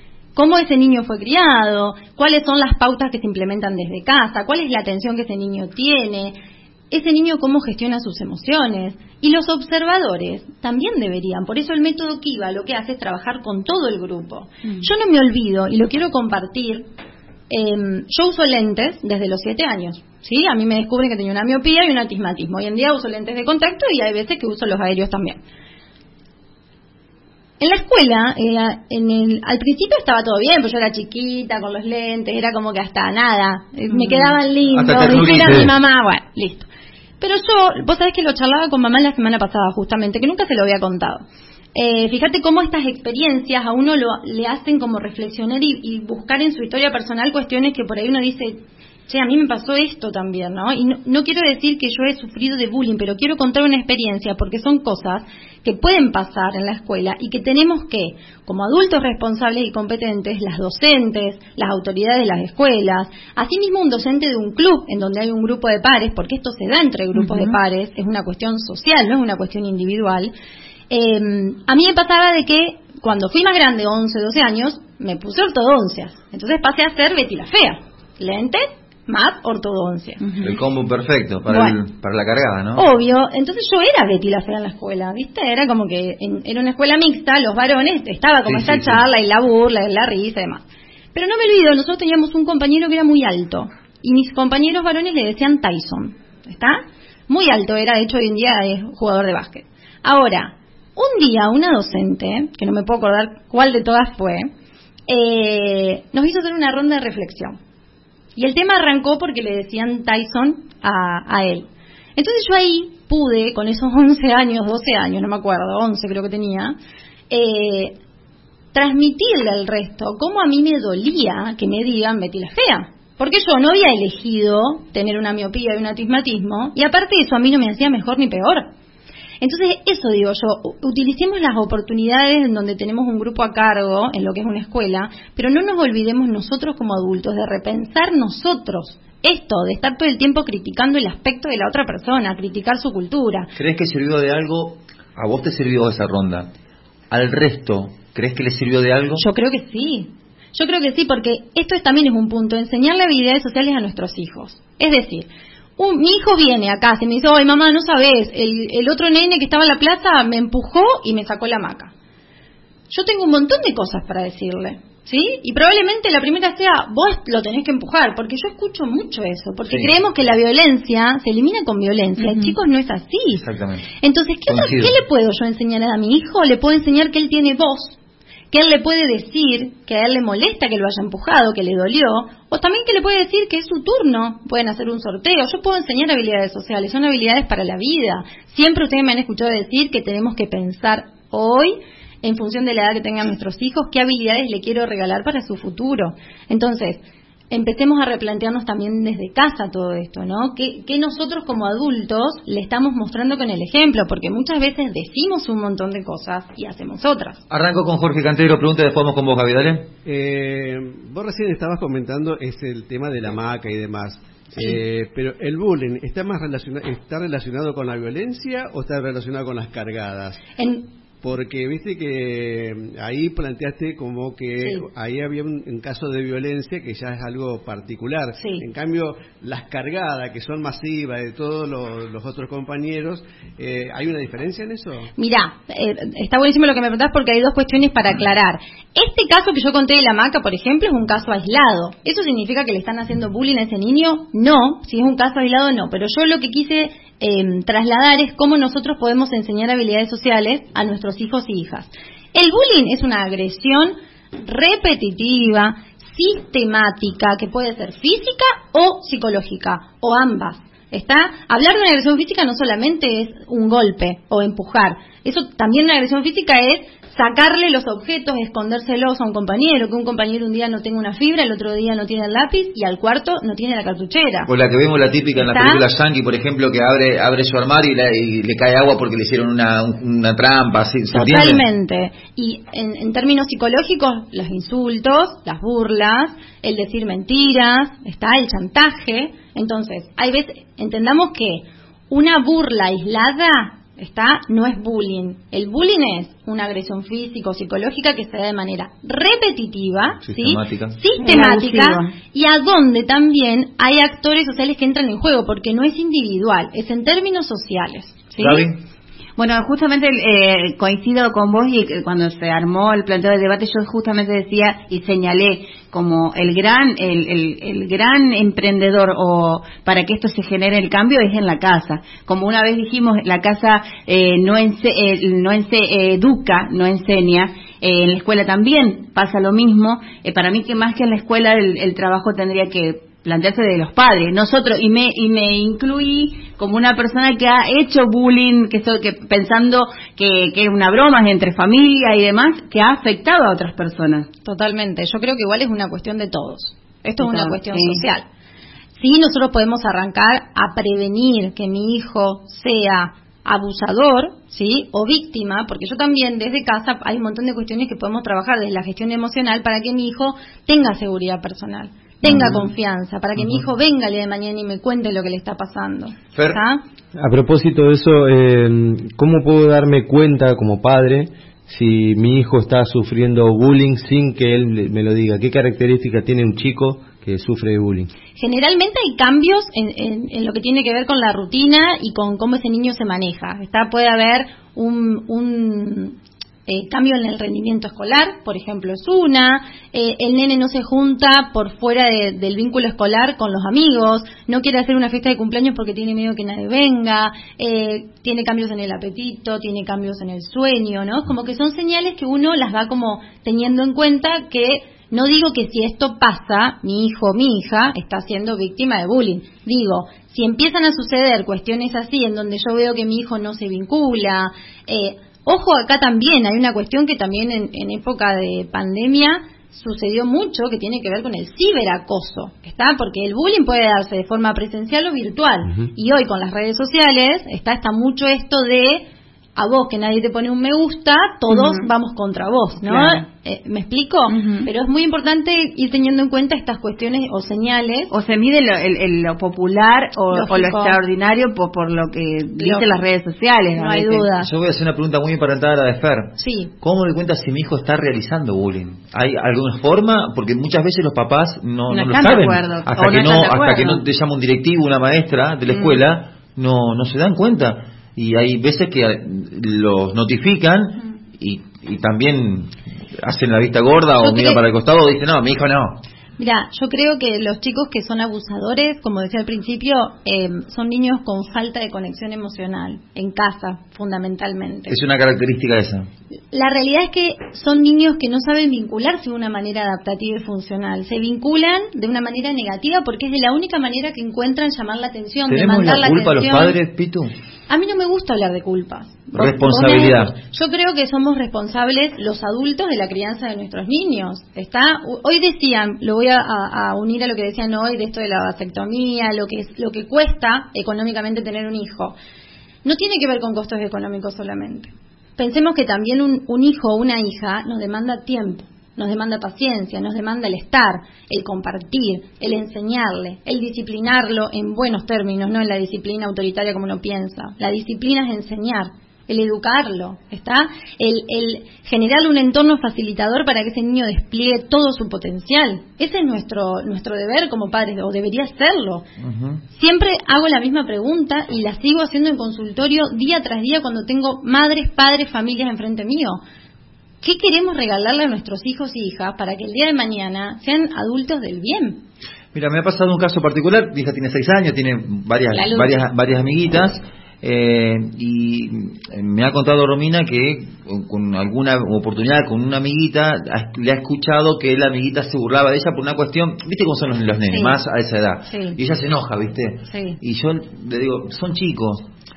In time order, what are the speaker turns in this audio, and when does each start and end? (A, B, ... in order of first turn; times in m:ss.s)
0:00.3-0:06.4 A
0:06.9-0:16.8 A
0:14.6-0:14.9 B
0:17.5-0:25.4 A
0:27.6-0:36.7 A
0:33.9-0:34.3 B
0:34.7-0:35.7 C
0:37.2-1:10.3 A
1:07.1-1:07.5 B
1:10.9-1:20.2 A
1:20.4-1:22.8 C
1:21.5-1:21.8 A
1:22.7-1:30.6 A
1:28.4-1:29.0 C
1:31.1-1:44.5 A
1:45.1-1:47.6 A
1:48.4-1:56.8 A
1:57.3-1:57.9 A
1:58.7-2:08.7 A
2:09.4-2:23.5 A
2:23.6-2:26.5 C
2:27.1-2:29.2 C
2:29.2-2:35.3 A
2:35.8-2:41.9 A
2:42.9-2:53.4 A
2:49.6-2:49.9 C
2:52.2-2:52.5 B
2:53.3-2:53.9 C
2:54.0-2:58.0 A
2:54.5-2:54.9 C
2:58.5-3:27.4 A
3:27.5-3:29.9 C
3:30.0-3:40.4 D
3:40.6-3:40.9 A
3:41.2-3:55.1 D
3:48.4-3:48.6 A
3:55.2-4:34.5 A
4:34.5-4:41.6 C
4:35.4-4:35.8 A
4:41.1-5:08.6 A
5:00.2-5:01.0 C
5:01.2-5:02.1 B
5:08.4-5:08.8 C
5:09.4-5:44.3 B
5:44.4-5:48.2 A
5:47.2-5:48.0 B
5:49.0-6:06.8 A
6:02.3-6:02.6 C
6:06.3-6:06.6 C
6:07.2-6:18.1 E
6:18.4-7:09.0 A
7:09.6-7:18.1 A
7:11.5-7:11.9 B
7:12.8-7:13.2 B
7:14.3-7:14.7 B
7:18.1-7:24.3 B
7:20.3-7:21.0 A
7:22.6-7:22.9 A
7:23.7-7:24.5 A
7:24.4-7:46.0 C
7:26.4-7:26.7 A
7:31.9-7:34.0 B
7:35.7-7:36.0 B
7:44.2-7:44.6 A
7:46.4-7:55.0 A
7:54.9-7:56.1 C
7:56.5-8:06.8 A
8:05.4-8:07.3 C
8:07.7-8:22.1 A
8:09.3-8:10.3 C
8:22.8-8:49.0 A
8:49.2-8:49.6 C
8:49.7-8:56.4 A
8:57.2-9:02.0 A
9:02.5-9:22.1 C
9:05.5-9:06.0 A
9:17.5-9:17.8 A
9:18.5-9:18.8 A
9:19.9-9:20.2 A